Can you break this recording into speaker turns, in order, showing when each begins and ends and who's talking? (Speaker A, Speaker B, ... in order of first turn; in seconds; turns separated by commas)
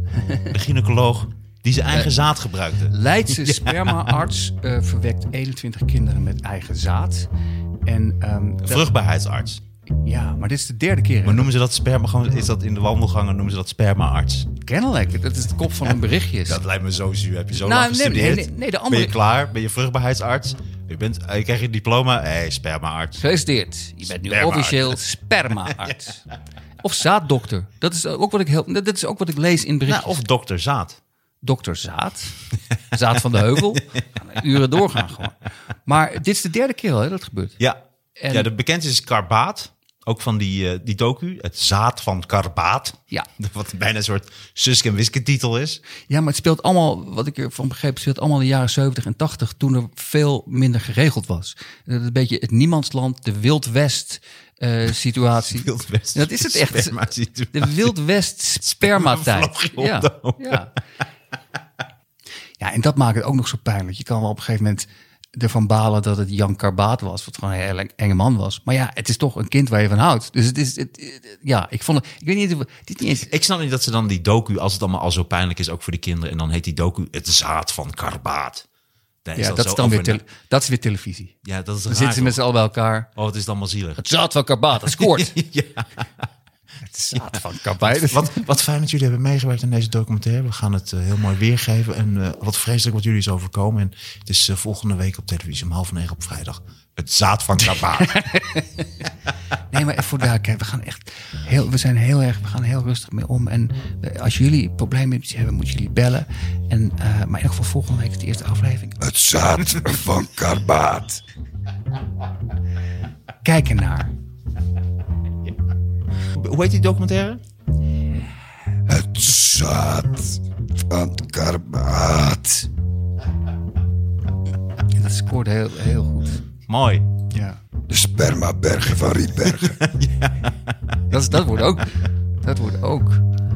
Speaker A: 0.4-4.2, Speaker B: 1.9-2.2, Speaker B: 2.7-7.3, Speaker B: 7.8-8.9, Speaker A: 8.6-9.6, Speaker B: 10.0-11.5, Speaker A: 11.2-14.5, Speaker B: 14.6-16.6, Speaker A: 16.4-23.3, Speaker B: 17.5-19.1, Speaker B: 23.2-26.2, Speaker A: 24.0-25.0, Speaker B: 26.8-30.2, Speaker A: 29.9-31.0, Speaker B: 31.4-32.4, Speaker B: 32.9-37.6, Speaker B: 38.2-38.5, Speaker A: 38.3-45.8, Speaker B: 46.1-60.7, Speaker A: 55.5-58.0, Speaker A: 58.6-60.7, Speaker B: 62.6-73.3, Speaker A: 73.2-78.7, Speaker A: 79.2-80.2, Speaker B: 79.4-81.3, Speaker A: 81.4-82.4, Speaker B: 81.9-83.1, Speaker A: 83.2-84.0, Speaker B: 84.0-85.3, Speaker A: 84.8-86.1, Speaker B: 86.8-88.4, Speaker A: 87.2-98.2, Speaker B: 97.8-99.1, Speaker B: 99.6-110.0, Speaker C: 109.1-111.2, Speaker B: 113.4-114.1, Speaker A: 116.3-117.4, Speaker C: 118.9-122.7, Speaker B: 124.9-126.4, Speaker A: 126.7-127.1, Speaker B: 127.3-127.6, Speaker C: 127.9-129.7, Speaker A: 129.4-131.2, Speaker B: 131.1-133.2